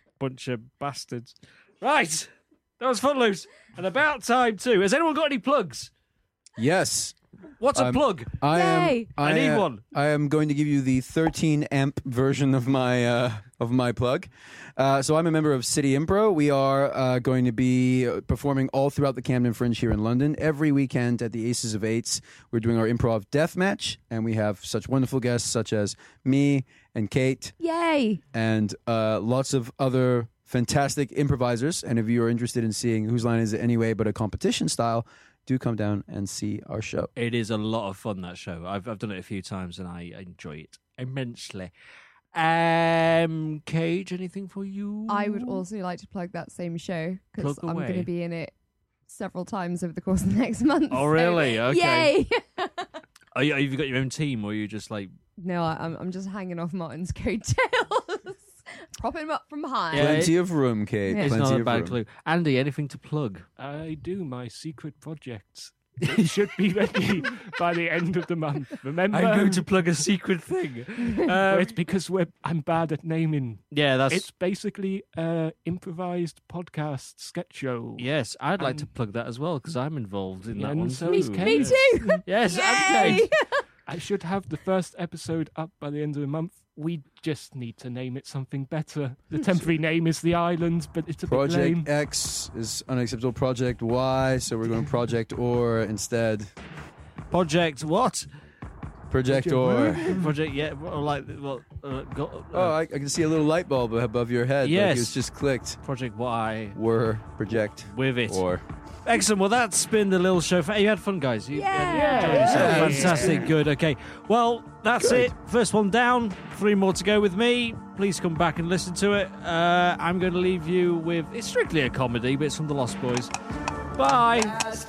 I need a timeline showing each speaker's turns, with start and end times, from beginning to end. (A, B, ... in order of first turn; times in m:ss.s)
0:00.2-0:05.9 A
0:06.6-0:07.2 B
0:07.6-0:08.4 A
0:07.7-0:27.6 B
0:08.5-0:09.1 C
0:09.2-0:09.8 A
0:27.6-0:28.2 C
0:28.3-0:37.1 B
0:37.2-0:41.7 A
0:42.3-0:45.6 A
0:45.1-0:48.5 C
0:47.4-0:48.1 A
0:49.1-0:53.0 C
0:50.9-0:52.1 A
0:53.3-0:55.1 A
0:55.4-1:00.2 C
0:59.9-1:00.4 A
0:59.9-1:02.0 B
1:01.1-1:01.3 C
1:01.2-1:03.4 A
1:03.6-1:09.6 D
1:09.1-1:11.8 A
1:11.2-1:18.1 D
1:13.7-1:14.3 A
1:18.0-1:23.3 A
1:18.6-1:18.9 D
1:20.5-1:22.3 D
1:21.1-1:23.4 C
1:22.8-1:23.3 D
1:23.9-1:31.9 D
1:31.3-1:36.5 B
1:37.3-1:38.3 A
1:39.1-1:40.2 B
1:39.3-1:40.3 D
1:40.1-1:42.8 A
1:42.5-1:45.8 B
1:44.6-1:45.2 A
1:45.8-1:46.8 A
1:46.7-1:48.6 B
1:47.9-1:48.4 A
1:49.0-2:03.3 A
1:51.5-1:53.1 C
1:51.9-1:53.5 D
1:52.4-1:53.5 B
1:55.0-1:55.3 B
2:04.0-2:04.6 A